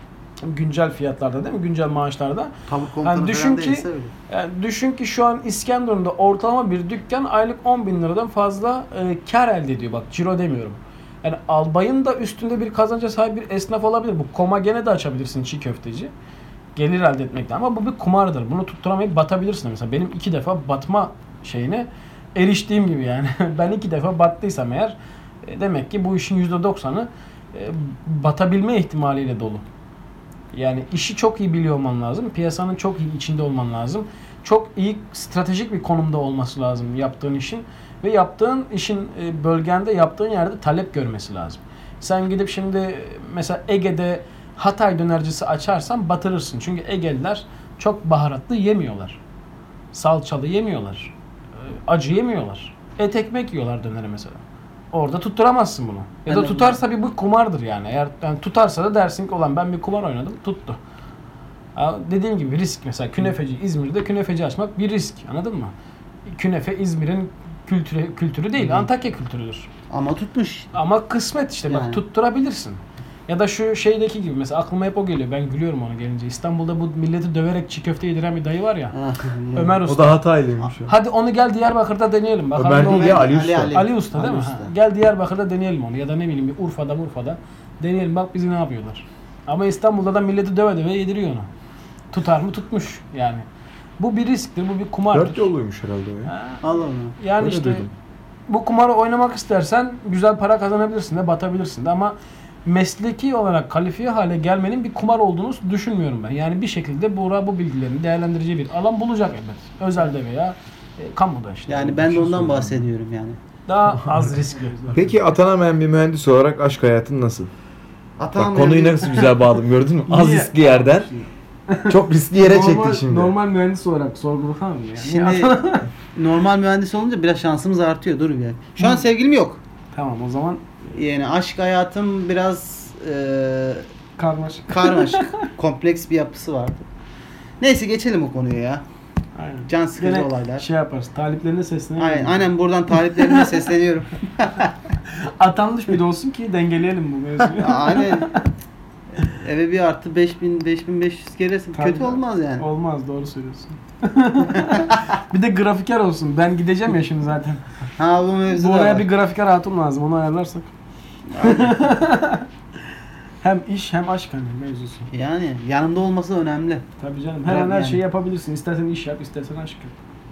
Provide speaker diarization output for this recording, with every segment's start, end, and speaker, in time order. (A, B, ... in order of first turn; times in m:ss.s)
0:00.4-0:16.1 A
0:02.7-0:04.1 B
0:16.8-0:29.6 A
0:30.5-0:49.2 A
0:49.9-1:00.8 A
0:56.3-0:56.8 B
1:01.7-1:05.7 A
1:06.2-1:09.7 A
1:08.6-1:08.9 B
1:09.9-1:10.7 B
1:10.7-1:18.9 A
1:11.7-1:12.0 B
1:18.9-1:19.8 B
1:19.5-1:20.2 A
1:19.8-1:20.9 C
1:20.9-1:31.5 A
1:22.6-1:23.8 C
1:22.7-1:24.7 B
1:32.1-1:33.4 A
1:34.0-1:35.5 A
1:35.1-1:36.3 C
1:36.2-1:37.8 A
1:36.6-1:37.2 B
1:37.3-1:37.9 C
1:38.5-1:52.8 A
1:51.7-1:53.4 B
1:53.7-1:55.1 A
1:54.9-1:57.5 C
1:58.2-1:59.3 B
1:58.3-2:01.1 C
2:00.1-2:01.1 A
2:01.7-2:05.9 A
2:01.9-2:03.3 C
2:05.0-2:05.6 B
2:06.1-2:09.6 B
2:09.9-2:11.0 A
2:10.9-2:13.8 B
2:14.2-2:15.5 A
2:14.7-2:16.8 B
2:17.6-2:18.8 B
2:19.3-2:23.4 A
2:19.7-2:20.6 B
2:22.0-2:24.7 B
2:25.0-2:28.5 A
2:27.5-2:28.3 B
2:29.2-2:32.6 B
2:31.7-2:37.6 A
2:34.5-2:34.9 B
2:38.0-2:39.0 B
2:38.5-2:40.7 A
2:41.3-2:41.9 B
2:41.4-2:42.5 A
2:43.4-2:45.1 A
2:45.1-2:46.8 B
2:47.0-2:49.9 A
2:47.4-2:48.0 B